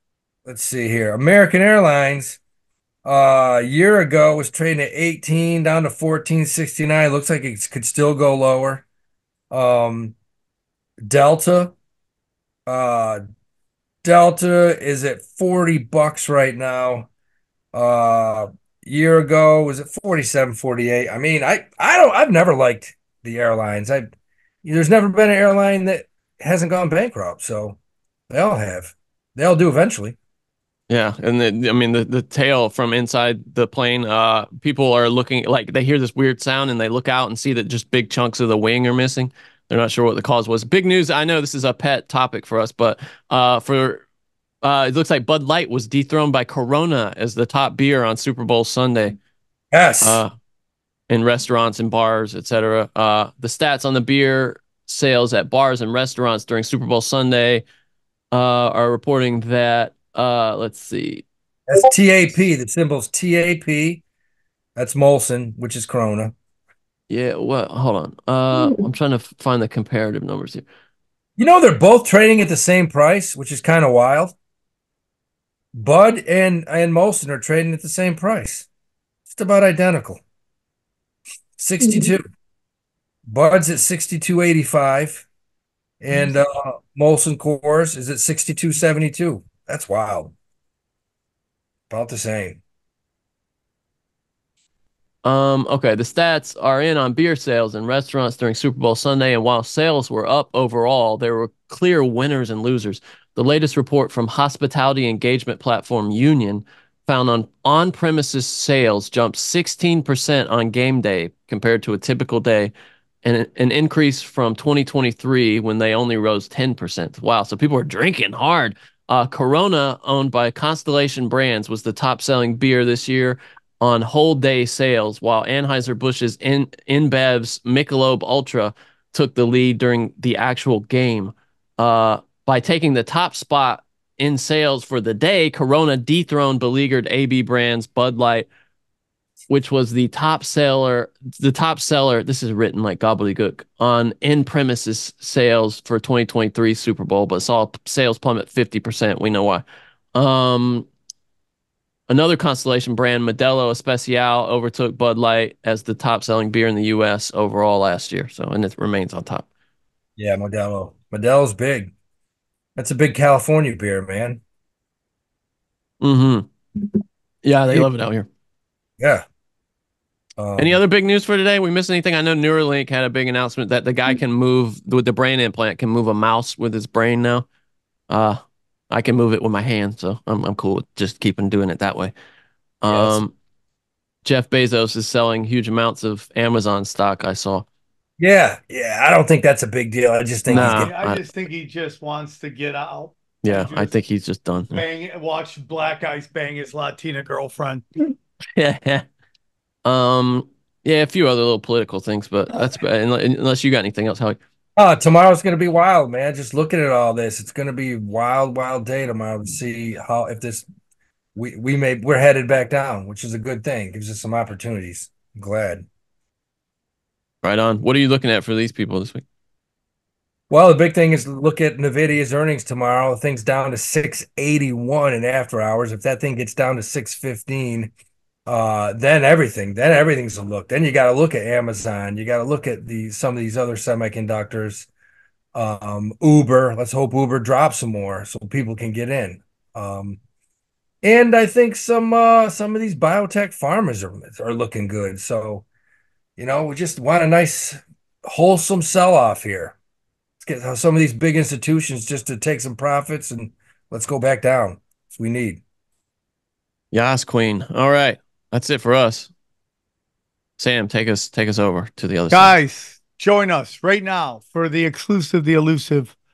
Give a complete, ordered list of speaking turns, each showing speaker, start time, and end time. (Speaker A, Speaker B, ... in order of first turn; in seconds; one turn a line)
Speaker A: 0.5-2.4
Speaker A: 3.0-8.8
Speaker A: 9.5-10.1
Speaker A: 11.1-11.7
Speaker A: 12.7-13.2
Speaker A: 14.0-17.1
Speaker A: 17.7-24.1
Speaker A: 24.6-27.8
Speaker A: 28.3-30.2
Speaker B: 30.9-44.0
Speaker B: 44.6-49.2
Speaker A: 49.7-50.2
Speaker B: 50.0-50.3
Speaker B: 51.1-57.6
Speaker B: 58.3-61.2
Speaker A: 61.7-64.0
Speaker A: 64.8-66.3
Speaker B: 67.1-70.6
Speaker A: 71.4-74.3
Speaker A: 75.8-78.7
Speaker A: 79.3-80.2
Speaker A: 81.6-82.2
Speaker A: 83.3-85.3
Speaker A: 86.0-90.3
Speaker A: 91.9-92.6
Speaker B: 95.2-112.7
Speaker B: 113.2-138.5
Speaker B: 139.5-149.6
Speaker B: 150.1-150.9
Speaker B: 152.1-159.5
Speaker A: 160.2-161.9
Speaker A: 162.8-164.4
Speaker B: 166.0-166.5
Speaker B: 167.4-168.3
Speaker A: 170.4-170.8
Speaker B: 170.6-177.4
Speaker B: 178.1-178.4
Speaker B: 178.9-182.1
Speaker B: 182.8-183.3
Speaker A: 182.9-183.2
Speaker B: 184.2-187.6
Speaker A: 188.2-190.9
Speaker B: 190.5-191.2
Speaker C: 190.5-193.9
Speaker B: 193.4-194.8
Speaker C: 194.7-197.8
Speaker B: 198.6-199.0
Speaker B: 199.8-204.4
Speaker A: 204.8-210.6
Speaker A: 211.3-215.9
Speaker B: 217.4-219.2
Speaker A: 220.5-227.9
Speaker A: 228.5-234.9
Speaker A: 235.6-240.2
Speaker A: 241.0-245.6
Speaker A: 246.4-249.8
Speaker A: 250.4-255.6
Speaker B: 256.9-259.3
Speaker B: 260.6-262.6
Speaker C: 262.3-266.1